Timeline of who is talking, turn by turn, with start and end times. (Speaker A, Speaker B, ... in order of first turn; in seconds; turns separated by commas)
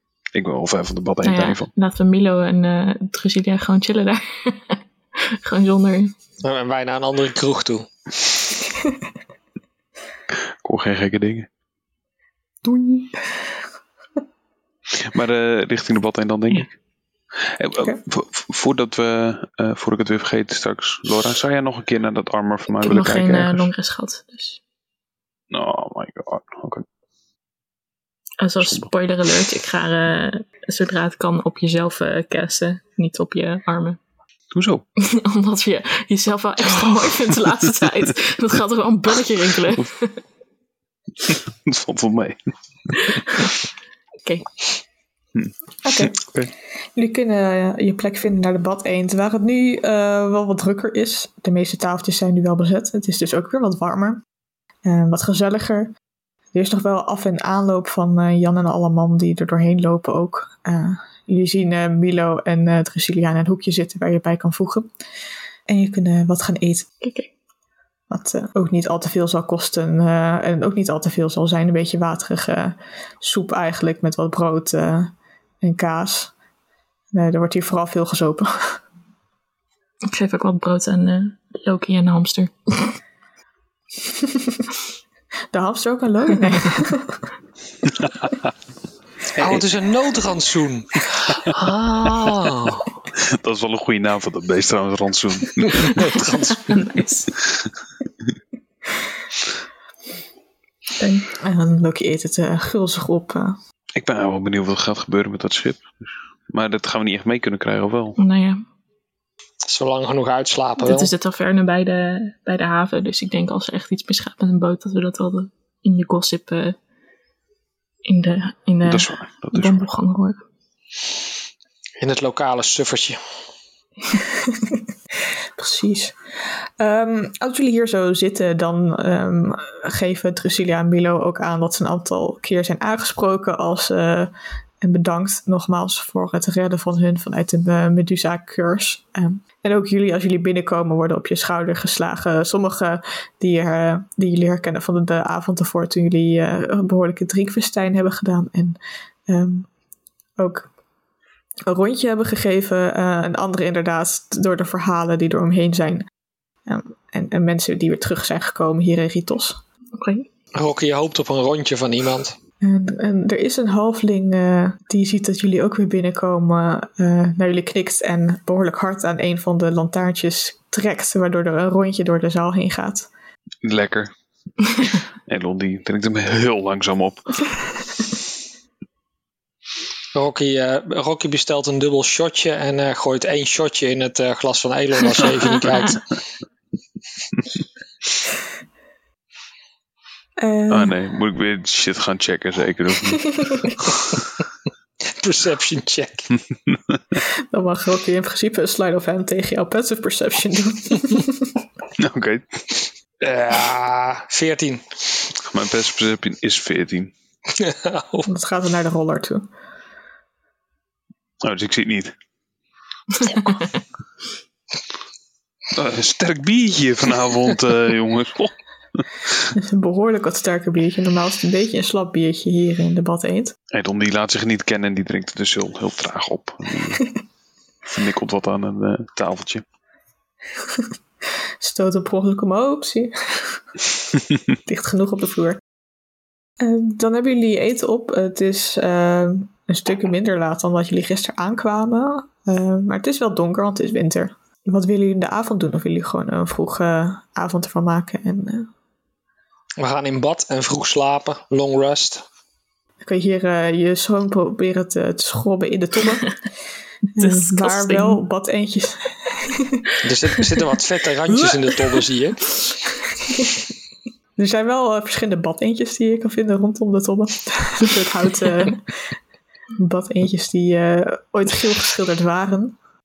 Speaker A: 0.3-1.7, Speaker B: 1.2-6.1, Speaker C: 6.4-7.9, Speaker A: 10.3-11.5, Speaker D: 12.7-13.4, Speaker A: 15.0-16.7, Speaker A: 17.4-23.7, Speaker B: 22.7-24.6, Speaker A: 25.5-26.9, Speaker B: 28.4-34.0, Speaker A: 28.6-28.9, Speaker A: 34.5-34.9, Speaker B: 35.0-40.2, Speaker A: 41.3-42.9, Speaker B: 42.9-43.6, Speaker A: 45.4-46.5, Speaker D: 45.8-46.2, Speaker D: 47.0-54.2, Speaker D: 54.9-55.9, Speaker D: 56.5-64.9, Speaker D: 65.7-66.9, Speaker B: 67.0-67.3, Speaker D: 68.1-76.3, Speaker D: 77.1-78.8, Speaker B: 80.1-83.0, Speaker D: 85.5-87.2, Speaker A: 87.9-88.5, Speaker A: 89.4-89.7, Speaker C: 89.4-93.0, Speaker A: 93.2-96.0, Speaker C: 95.6-96.8, Speaker B: 96.7-97.3, Speaker B: 101.0-101.3, Speaker D: 101.4-103.6, Speaker A: 104.0-108.2, Speaker B: 108.2-108.6, Speaker C: 109.7-111.1, Speaker B: 110.8-116.8, Speaker B: 118.0-120.4, Speaker A: 118.8-119.9, Speaker C: 122.0-123.2, Speaker D: 125.6-149.7, Speaker D: 150.4-150.7, Speaker D: 151.7-156.1, Speaker D: 156.7-159.6, Speaker B: 160.0-160.3, Speaker C: 160.6-162.4, Speaker D: 162.6-173.1, Speaker A: 173.6-174.1, Speaker A: 175.3-177.5, Speaker C: 180.1-186.1, Speaker D: 190.4-191.0, Speaker A: 190.7-193.8, Speaker C: 195.1-196.3, Speaker A: 196.7-197.0, Speaker D: 197.5-201.5, Speaker A: 202.0-202.9, Speaker C: 203.2-204.8, Speaker A: 205.4-207.1, Speaker C: 207.6-208.3, Speaker D: 208.3-209.5, Speaker A: 211.4-212.1, Speaker B: 213.1-213.8, Speaker A: 215.7-219.1, Speaker D: 219.5-223.6, Speaker A: 223.7-227.0, Speaker A: 227.8-229.6, Speaker D: 231.6-233.6, Speaker D: 234.7-235.6, Speaker D: 236.6-248.7, Speaker C: 249.8-252.2, Speaker D: 253.0-256.3, Speaker D: 257.2-259.9, Speaker B: 257.2-258.2, Speaker C: 260.0-262.5, Speaker D: 263.3-263.6, Speaker D: 264.4-268.9, Speaker D: 269.8-272.8